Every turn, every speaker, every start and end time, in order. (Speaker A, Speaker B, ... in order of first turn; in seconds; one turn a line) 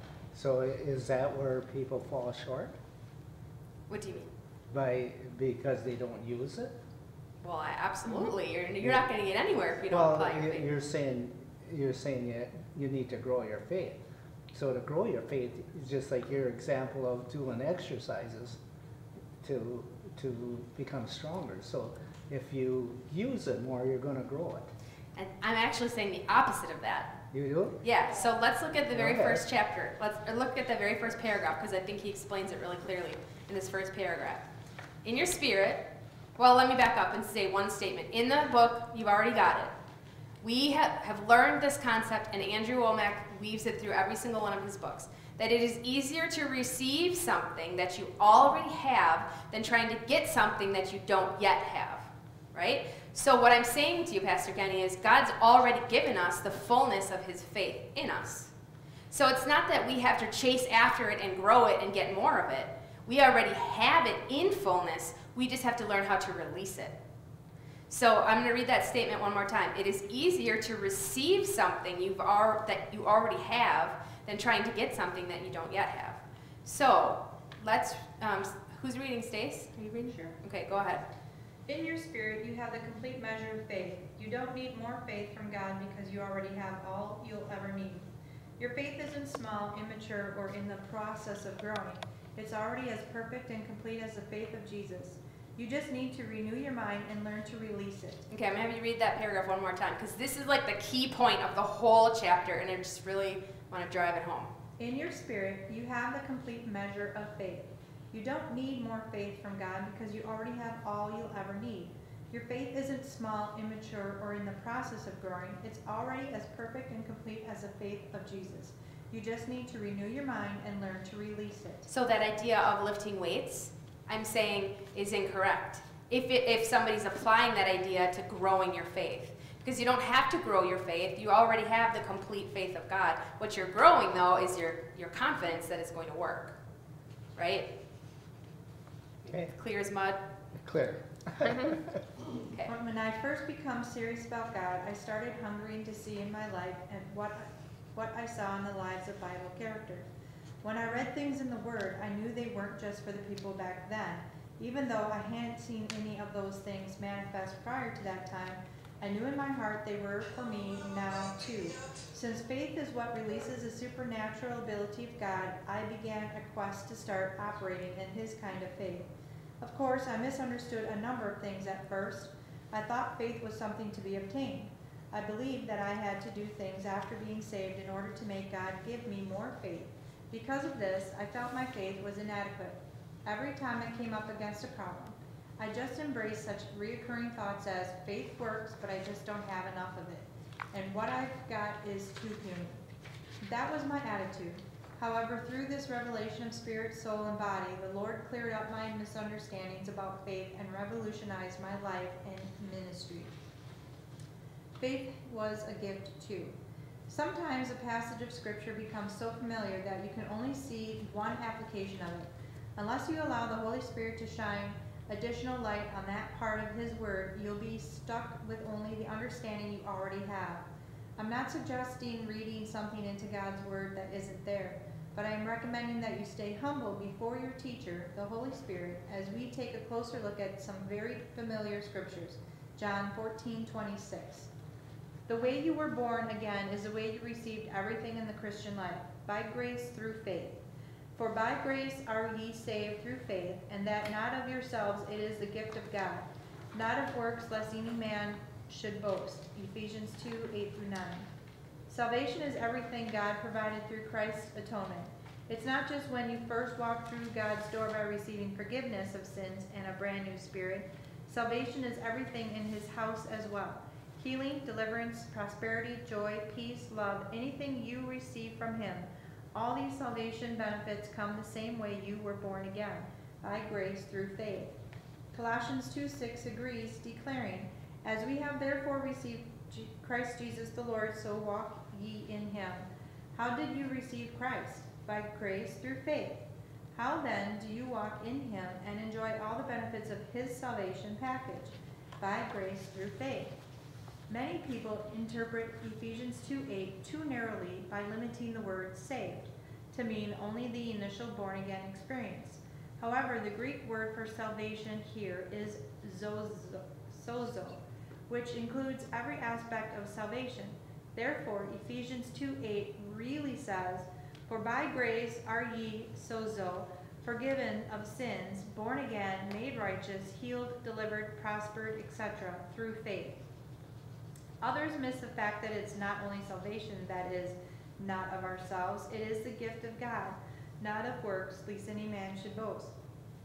Speaker A: 0.3-2.8
Speaker B: 3.9-4.3
Speaker A: 4.7-6.7
Speaker B: 7.4-10.7
Speaker A: 9.8-18.6
Speaker A: 19.4-24.7
Speaker B: 25.1-27.2
Speaker A: 27.3-27.8
Speaker B: 27.8-34.5
Speaker A: 28.9-29.4
Speaker B: 35.0-39.7
Speaker B: 40.4-58.5
Speaker B: 59.1-67.0
Speaker B: 67.9-81.0
Speaker C: 80.1-80.3
Speaker C: 81.7-98.3
Speaker B: 98.3-104.5
Speaker C: 104.8-121.9
Speaker B: 121.9-136.6
Speaker B: 137.3-137.7
Speaker B: 139.2-140.2
Speaker A: 140.5-142.0
Speaker C: 142.6-150.1
Speaker C: 150.6-169.1
Speaker C: 169.6-192.8
Speaker C: 193.4-203.3
Speaker C: 204.8-206.6
Speaker C: 207.1-220.7
Speaker C: 221.2-234.5
Speaker C: 235.3-240.6
Speaker C: 241.2-251.3
Speaker C: 251.9-274.7
Speaker C: 275.3-293.6
Speaker C: 294.3-323.4
Speaker C: 324.6-332.9